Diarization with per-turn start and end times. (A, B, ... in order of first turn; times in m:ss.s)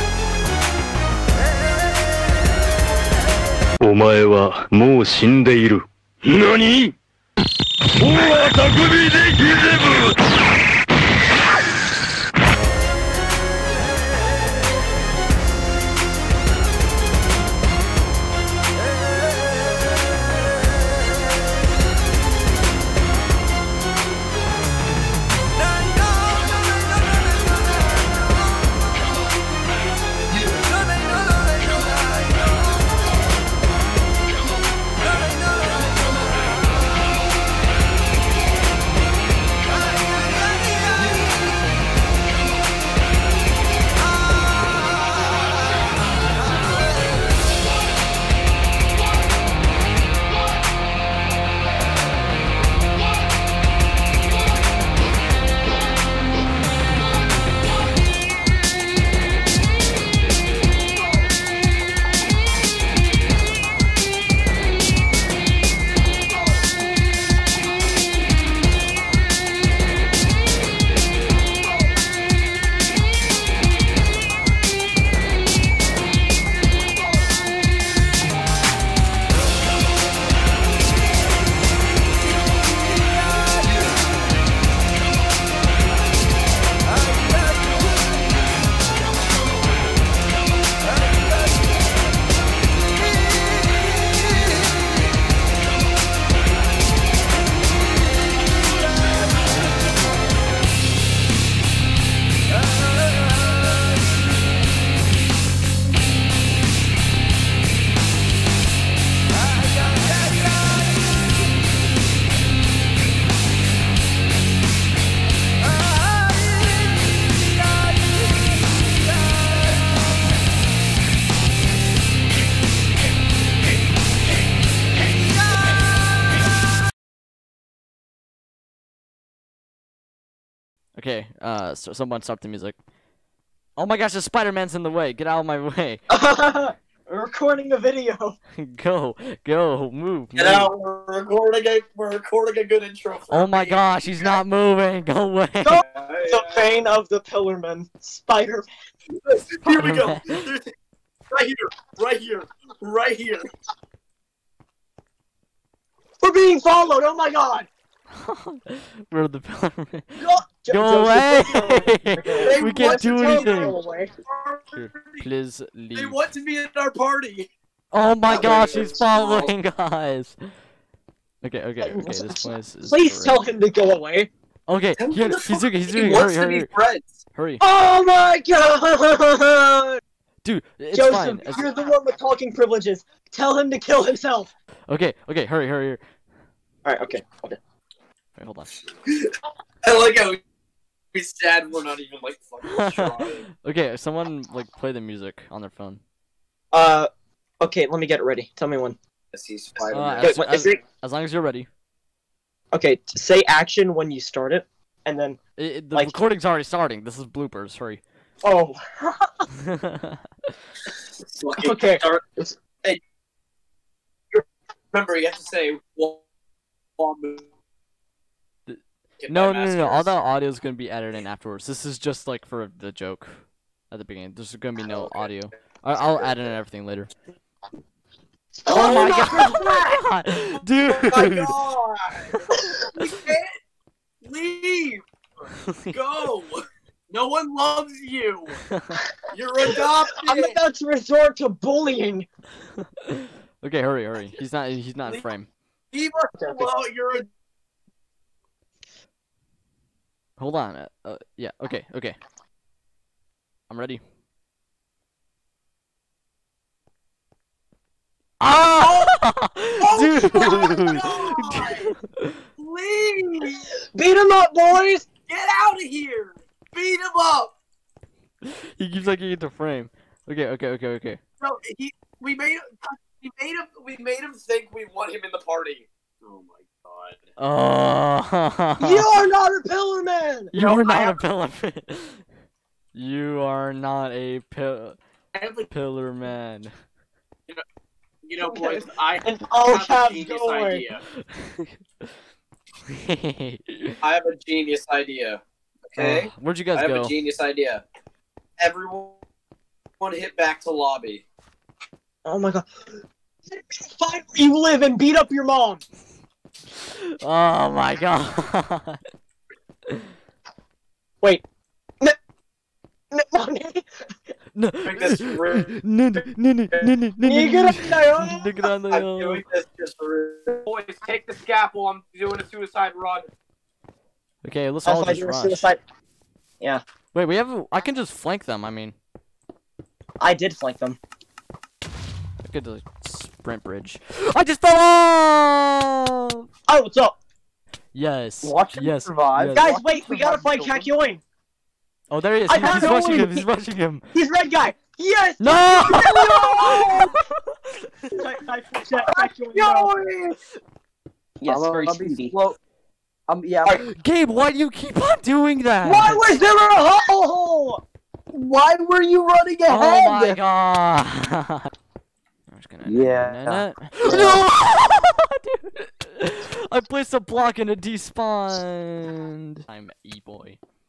0:03.8-0:06.9 A
0:08.0-0:10.1 A
2:10.9-2:12.8 B
2:13.8-2:16.0 B
2:16.1-2:18.4 C
2:18.6-2:20.7 B
2:20.4-2:24.4 D
2:23.3-2:25.8 B
2:25.6-2:28.7 C
2:25.8-2:26.7 D
2:29.1-2:30.6 D
2:29.6-2:30.2 B
2:31.3-2:33.5 D
2:36.2-2:37.7 C
2:38.1-2:43.8 B
2:40.2-2:44.1 C
2:42.4-2:45.2 D
2:44.7-2:46.2 B
2:45.9-2:47.5 D
2:47.9-2:50.4 B
2:48.3-2:49.5 D
2:51.4-2:53.4 B
2:51.8-2:54.3 C
2:54.7-2:56.7 B
2:55.0-2:57.2 D
2:57.3-2:57.6 B
2:57.6-3:00.0 C
3:00.4-3:01.6 B
3:00.9-3:04.5 C
3:04.9-3:06.0 B
3:06.8-3:07.6 C
3:08.4-3:08.7 B
3:09.0-3:09.3 D
3:09.8-3:10.4 D
3:11.1-3:13.5 D
3:12.6-3:16.0 B
3:16.7-3:17.1 C
3:17.6-3:19.0 C
3:19.3-3:20.4 D
3:19.9-3:21.7 B
3:20.2-3:20.8 C
3:22.7-3:25.4 C
3:25.6-3:28.0 B
3:28.4-3:29.4 C
3:29.7-3:30.2 B
3:31.2-3:32.2 D
3:31.6-3:32.6 C
3:34.3-3:36.2 D
3:37.0-3:37.4 D
3:38.7-3:47.1 B
3:39.2-3:40.1 D
3:48.6-3:50.0 C
3:48.7-3:51.6 B
3:50.8-3:52.4 D
3:52.9-3:53.5 D
3:54.2-3:55.0 D
3:55.7-3:55.9 B
3:55.9-3:58.6 D
3:58.6-3:59.0 B
3:59.3-4:00.6 D
4:00.2-4:02.3 C
4:03.6-4:05.5 B
4:05.9-4:07.2 D
4:06.4-4:06.7 C
4:10.4-4:12.2 B
4:13.7-4:14.0 B
4:18.4-4:22.4 B
4:18.8-4:19.1 D
4:19.8-4:21.9 D
4:20.4-4:20.9 C
4:22.6-4:23.6 D
4:23.9-4:25.1 C
4:25.3-4:27.5 D
4:28.4-4:31.2 B
4:31.4-4:37.2 D
4:37.4-4:39.1 B
4:38.8-4:40.5 C
4:40.5-4:42.2 B
4:40.5-4:41.2 D
4:42.9-4:45.0 B
4:45.3-4:45.7 D
4:45.7-4:46.7 B
4:48.2-4:51.0 D
4:48.4-4:50.8 C
4:51.2-4:52.1 B
4:52.9-4:54.0 B
4:54.0-4:57.8 D
4:56.0-4:57.1 B
4:58.6-4:59.2 D
5:00.0-5:01.2 D
5:02.2-5:02.7 C
5:03.5-5:05.8 C
5:06.8-5:09.0 B
5:13.1-5:13.8 C
5:14.5-5:19.4 B
5:14.8-5:15.7 D
5:17.2-5:18.5 C
5:18.9-5:23.3 D
5:24.4-5:25.7 B
5:24.8-5:25.8 C
5:27.1-5:29.0 B
5:30.2-5:31.0 C
5:32.4-5:36.4 B
5:36.7-5:37.1 C
5:37.9-5:39.7 B
5:38.4-5:40.5 E
5:39.3-5:40.9 D
5:39.5-5:41.2 C
5:42.1-5:44.0 B
5:42.5-5:43.4 C
5:44.1-5:46.9 C
5:45.4-5:47.8 B
5:46.1-5:47.0 D
5:48.1-5:50.1 C
5:49.5-5:50.3 D
5:51.4-5:52.3 C
5:51.5-5:52.6 E
5:53.3-5:53.8 E
5:53.8-5:56.2 B
5:55.8-5:57.8 C
5:58.3-6:00.4 E
5:59.7-6:01.7 B
6:02.5-6:10.6 B
6:02.8-6:04.4 E